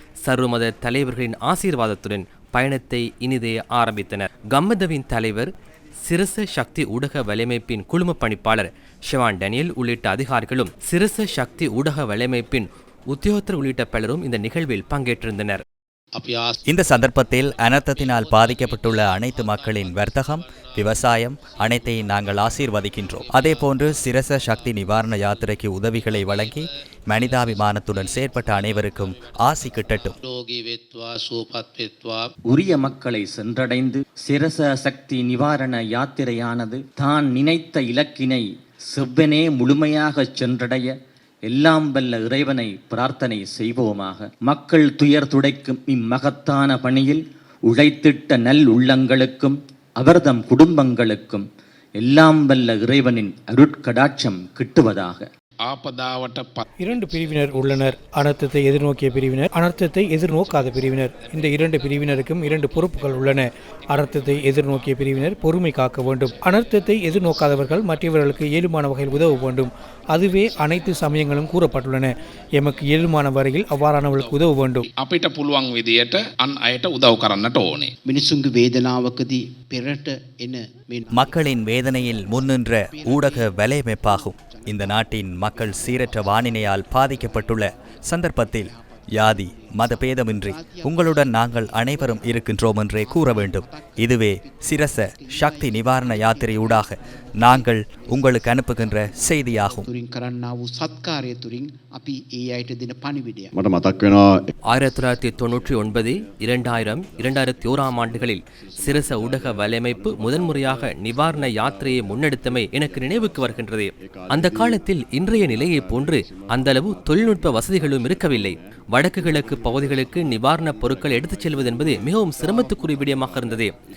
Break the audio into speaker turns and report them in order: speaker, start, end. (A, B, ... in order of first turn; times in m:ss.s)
0:00.2-0:05.5 A
0:06.0-0:15.6 A
0:16.1-0:16.6 B
0:16.7-0:30.2 C
0:30.2-0:32.3 B
0:32.5-0:40.9 D
0:41.5-0:51.4 D
0:52.0-0:55.3 D
0:55.6-0:56.6 E
0:56.8-1:14.8 F
1:15.0-1:17.9 E
1:18.0-1:21.3 B
1:21.1-1:39.8 C
1:22.9-1:23.4 B
1:30.4-1:32.4 B
1:33.1-1:33.9 B
1:35.5-1:36.8 B
1:39.9-1:43.5 B
1:43.6-1:44.4 D
1:44.7-2:03.7 A